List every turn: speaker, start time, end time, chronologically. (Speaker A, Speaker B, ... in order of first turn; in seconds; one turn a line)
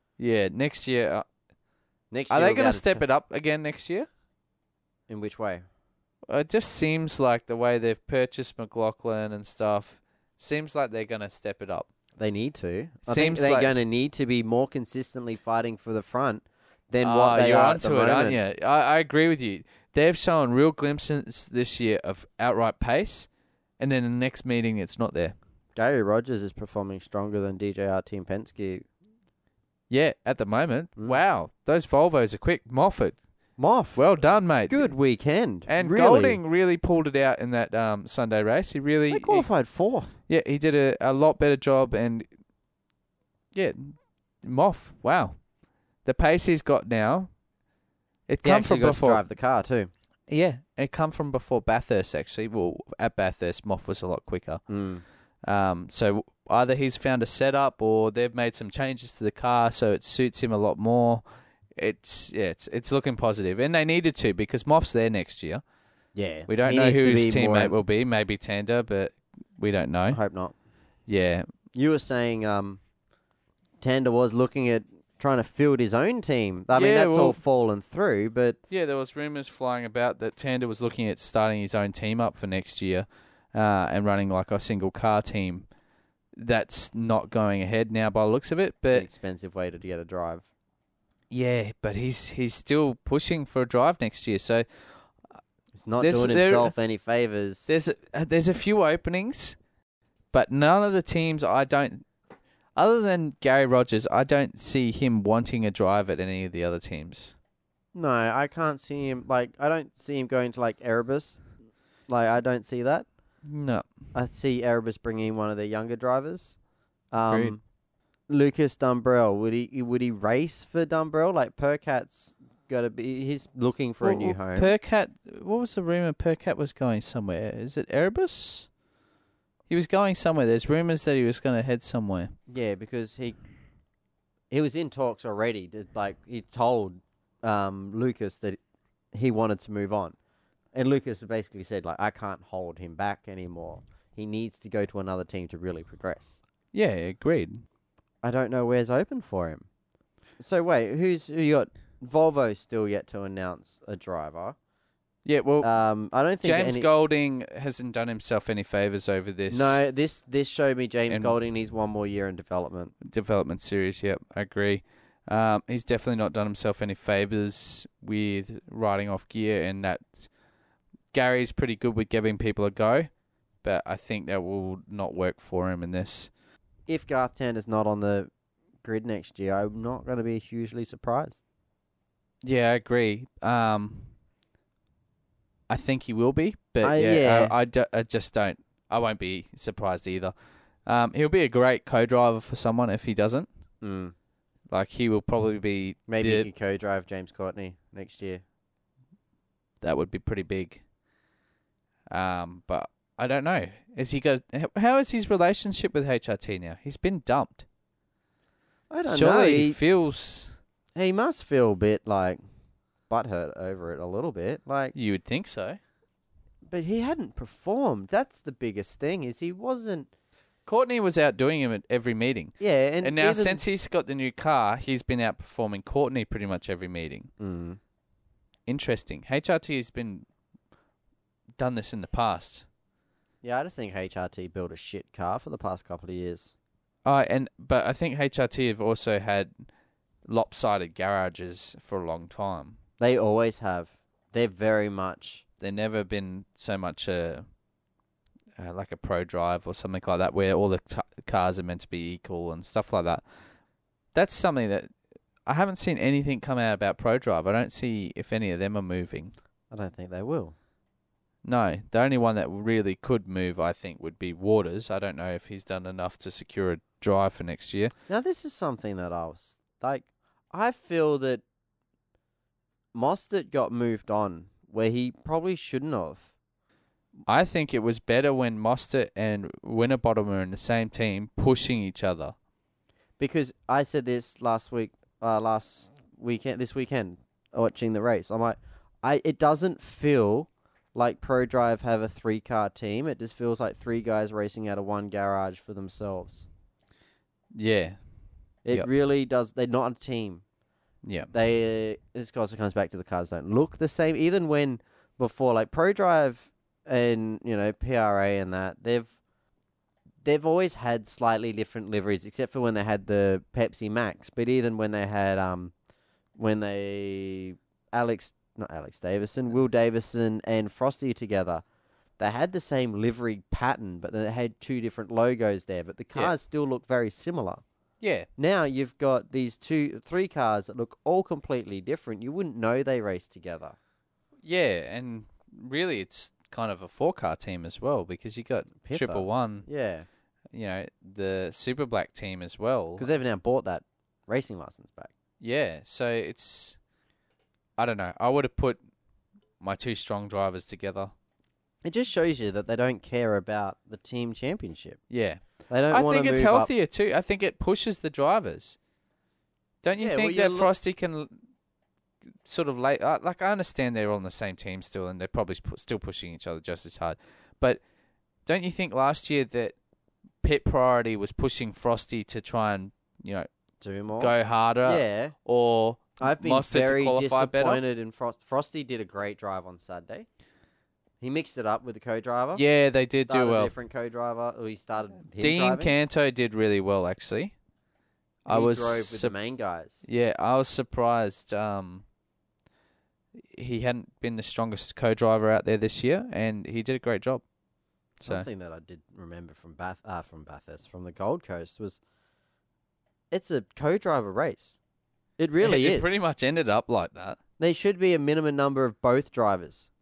Speaker A: 0.2-1.2
Speaker B: 2.1-3.0
Speaker A: 2.3-4.1
Speaker B: 5.1-5.6
Speaker A: 6.2-11.9
Speaker B: 12.2-18.4
Speaker A: 13.1-13.7
Speaker A: 17.0-25.4
Speaker B: 25.8-28.8
Speaker A: 29.9-33.2
Speaker B: 33.6-34.0
Speaker A: 33.9-34.9
Speaker B: 34.7-36.4
Speaker A: 35.7-39.5
Speaker B: 39.1-40.1
Speaker A: 40.3-42.3
Speaker A: 43.5-45.4
Speaker A: 46.0-47.3
Speaker A: 48.3-49.2
Speaker B: 48.4-49.9
Speaker A: 50.3-54.6
Speaker B: 54.7-55.0
Speaker A: 55.4-61.2
Speaker A: 61.7-65.6
Speaker B: 66.1-67.7
Speaker A: 66.5-70.2
Speaker B: 70.1-70.5
Speaker A: 71.1-71.5
Speaker B: 71.7-72.8
Speaker B: 73.8-78.6
Speaker A: 76.7-77.4
Speaker A: 78.7-85.7
Speaker A: 86.3-89.1
Speaker B: 88.8-90.4
Speaker A: 91.3-94.7
Speaker B: 95.7-97.7
Speaker A: 96.0-96.7
Speaker A: 97.7-99.6
Speaker A: 100.3-102.0
Speaker A: 102.8-107.3
Speaker B: 107.9-111.4
Speaker B: 112.1-113.1
Speaker A: 113.4-113.8
Speaker B: 114.1-116.6
Speaker B: 117.1-117.6
Speaker A: 117.2-117.6
Speaker B: 118.3-124.7
Speaker A: 124.0-128.7
Speaker A: 129.7-132.3
Speaker B: 132.5-133.4
Speaker B: 134.5-138.6
Speaker B: 139.1-140.2
Speaker B: 140.7-146.4
Speaker A: 146.7-147.6
Speaker B: 148.2-149.7
Speaker B: 150.4-154.6
Speaker A: 155.2-155.7
Speaker B: 155.6-156.9
Speaker A: 156.4-159.8
Speaker B: 159.5-162.9
Speaker A: 161.1-161.3
Speaker A: 163.0-170.3
Speaker A: 171.1-173.1
Speaker A: 173.6-176.3
Speaker B: 176.9-178.3
Speaker B: 178.8-181.4
Speaker A: 182.4-184.1
Speaker A: 185.7-190.3
Speaker B: 186.8-187.5
Speaker A: 190.8-193.5
Speaker B: 193.8-194.1
Speaker A: 194.7-196.5
Speaker B: 196.1-198.4
Speaker A: 199.8-200.8
Speaker A: 202.1-207.7
Speaker B: 208.9-209.8
Speaker A: 209.1-210.6
Speaker B: 210.9-212.4
Speaker B: 213.1-214.9
Speaker A: 214.9-215.8
Speaker B: 216.7-220.1
Speaker A: 220.7-227.3
Speaker B: 222.6-223.6
Speaker B: 227.4-227.8
Speaker A: 228.7-230.2
Speaker A: 231.6-232.7
Speaker B: 233.4-236.5
Speaker A: 237.0-239.6
Speaker A: 240.2-242.8
Speaker B: 243.0-245.4
Speaker A: 245.6-247.4
Speaker A: 248.6-253.2
Speaker A: 254.1-254.9
Speaker A: 255.4-259.3
Speaker B: 259.7-260.5
Speaker A: 261.4-267.9
Speaker B: 268.1-271.4
Speaker B: 272.9-276.3
Speaker A: 277.3-282.3
Speaker B: 283.2-296.5
Speaker A: 297.5-298.0
Speaker B: 298.6-300.4
Speaker A: 301.0-301.3
Speaker B: 301.3-309.1
Speaker B: 310.2-315.7
Speaker B: 316.4-321.6
Speaker B: 322.2-327.6
Speaker A: 328.0-328.3
Speaker B: 328.4-333.8
Speaker A: 334.4-339.7
Speaker B: 338.8-340.1
Speaker A: 340.5-343.1
Speaker B: 343.0-345.1
Speaker A: 345.4-346.8
Speaker A: 347.8-348.8
Speaker A: 349.6-351.1
Speaker B: 351.8-355.0
Speaker A: 355.1-358.8
Speaker B: 355.7-356.7
Speaker A: 359.8-361.4
Speaker B: 360.0-360.7
Speaker A: 362.4-367.8
Speaker A: 368.4-369.7
Speaker A: 370.4-373.5
Speaker B: 373.8-375.3
Speaker A: 374.2-377.8
Speaker B: 376.2-380.2
Speaker B: 381.2-382.6
Speaker A: 382.5-383.7
Speaker B: 383.2-385.9
Speaker A: 385.4-387.5
Speaker A: 388.4-389.3
Speaker B: 388.5-390.0
Speaker A: 390.0-392.0
Speaker A: 393.5-397.4
Speaker A: 398.2-398.5
Speaker B: 398.2-402.0
Speaker B: 403.3-404.7
Speaker B: 405.4-406.2
Speaker A: 405.6-407.4
Speaker B: 407.6-409.9